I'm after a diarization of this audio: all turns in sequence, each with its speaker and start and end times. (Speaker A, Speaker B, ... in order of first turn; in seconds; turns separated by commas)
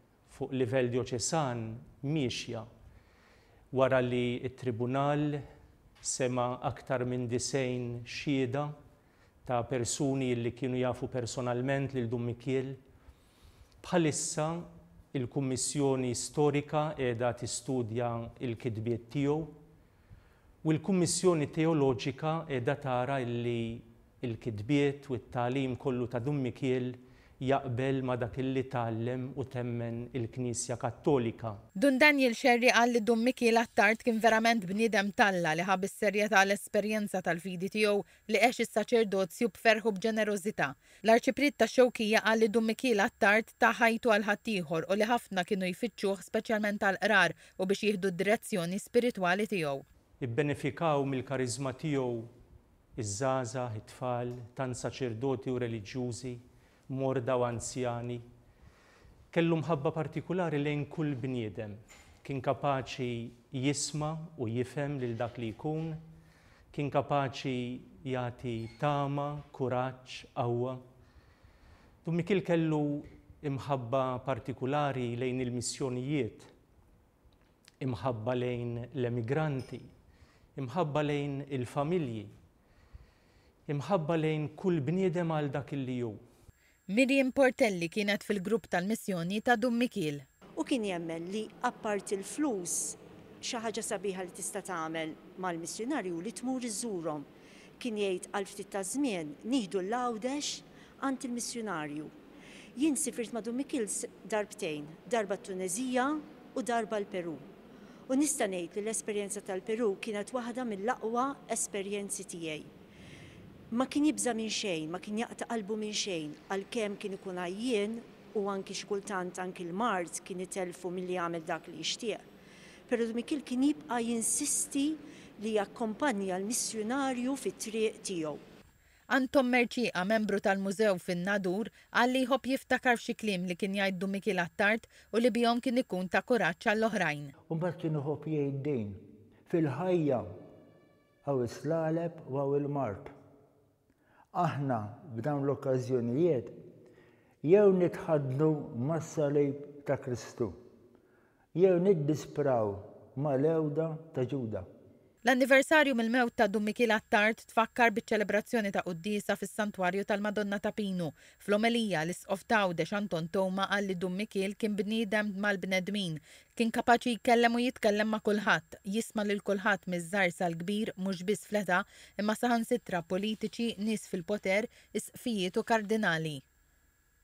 Speaker A: 0.3-2.6, Speaker A: 3.7-5.4, Speaker A: 6.0-8.7, Speaker A: 9.4-12.8, Speaker A: 13.8-19.6, Speaker A: 20.6-31.6, Speaker B: 31.8-49.8, Speaker A: 50.2-52.3, Speaker A: 53.0-58.2, Speaker A: 59.3-66.0, Speaker A: 66.7-70.8, Speaker A: 72.0-76.5, Speaker A: 77.8-79.8, Speaker A: 80.6-82.3, Speaker A: 83.7-86.2, Speaker B: 86.9-90.2, Speaker C: 90.6-97.3, Speaker C: 97.8-102.1, Speaker C: 102.8-107.5, Speaker C: 108.1-112.7, Speaker C: 113.7-122.2, Speaker C: 122.9-128.4, Speaker B: 129.1-137.3, Speaker D: 137.5-140.2, Speaker D: 141.2-143.1, Speaker D: 144.3-146.5, Speaker D: 147.4-150.5, Speaker D: 151.6-154.7, Speaker B: 155.2-176.4